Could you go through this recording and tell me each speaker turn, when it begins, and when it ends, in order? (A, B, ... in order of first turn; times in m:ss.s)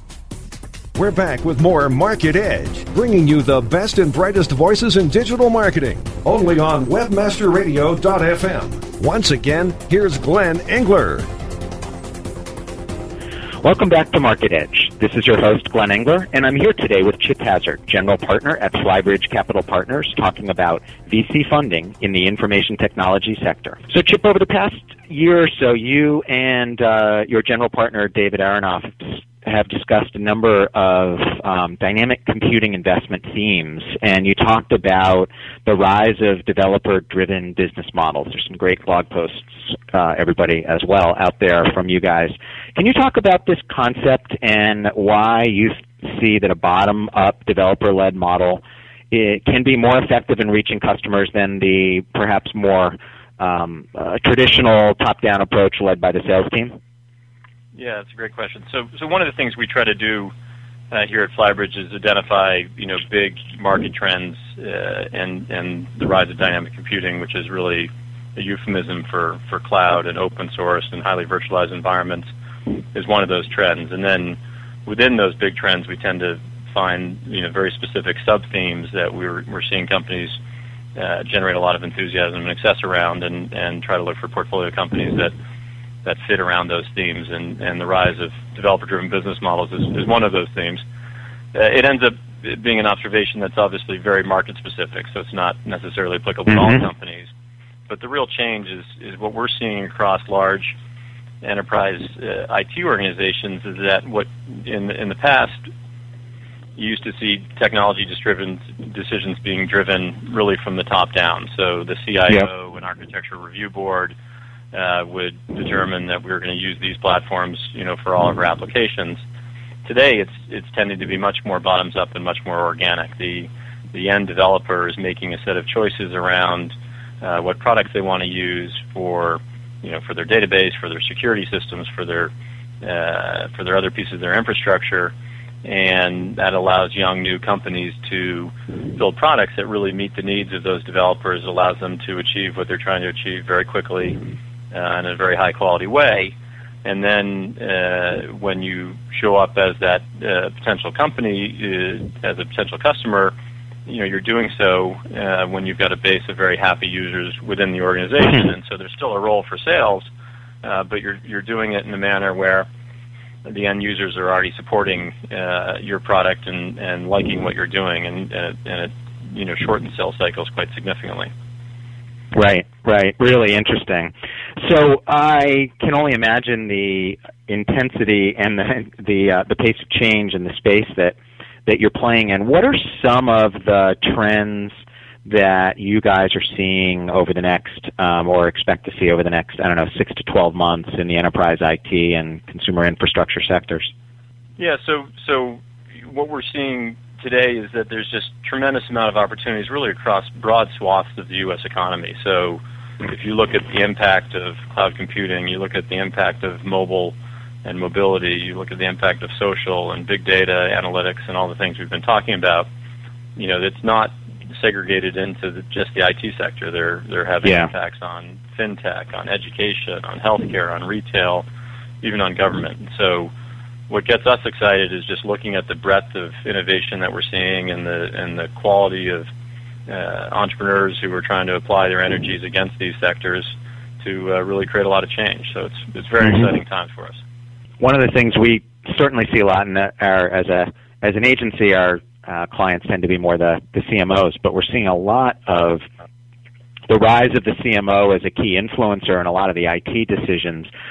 0:01.0-0:11.3 A
0:13.6-0:56.8 B
0:57.8-1:00.3 C
1:00.9-1:12.3 C
1:12.9-1:20.4 C
1:21.0-1:25.3 C
1:26.0-1:30.8 C
1:31.5-1:37.3 C
1:36.5-1:36.9 B
1:37.9-1:40.8 C
1:41.4-1:45.7 C
1:46.8-1:54.1 C
1:54.7-1:59.2 C
1:59.8-2:12.3 C
2:12.8-2:15.1 C
2:15.6-2:24.2 C
2:24.7-2:33.3 C
2:33.9-2:40.1 C
2:40.6-2:42.7 C
2:43.4-2:51.3 C
2:52.3-3:13.9 B
3:14.6-3:32.7 C
3:33.4-3:41.5 C
3:37.4-3:37.7 B
3:42.0-3:43.3 C
3:43.9-3:49.3 C
3:49.9-3:57.2 C
3:56.2-3:56.5 B
3:57.8-4:05.8 B
4:06.9-4:10.7 B